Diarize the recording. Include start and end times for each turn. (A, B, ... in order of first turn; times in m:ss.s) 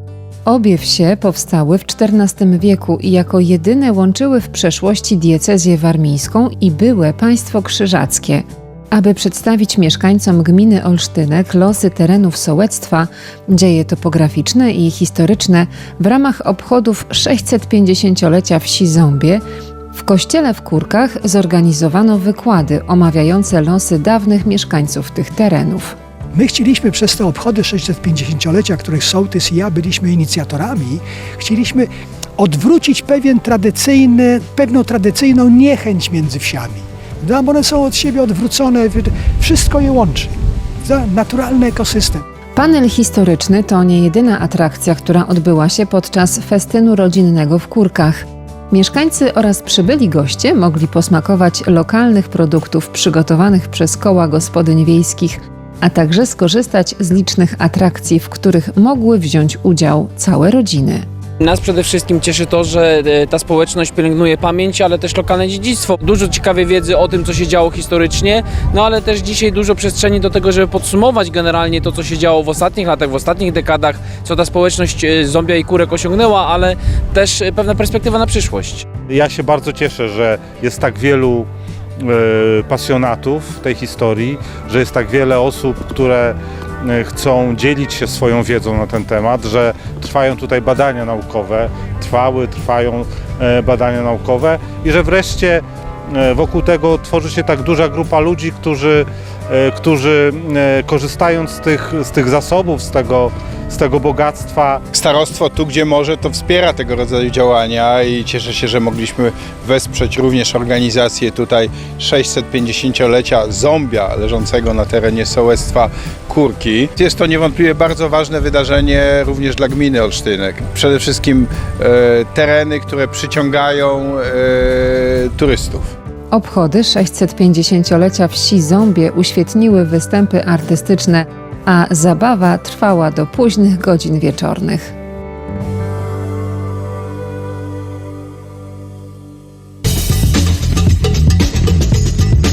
0:00.4-0:19.4 A
0:19.9-0:26.0 A
0:26.3-0:42.2 B
0:42.6-1:01.0 A
1:01.4-1:18.8 C
1:19.1-1:21.5 D
1:22.0-1:44.8 D
1:44.9-2:05.9 E
2:06.3-2:14.9 A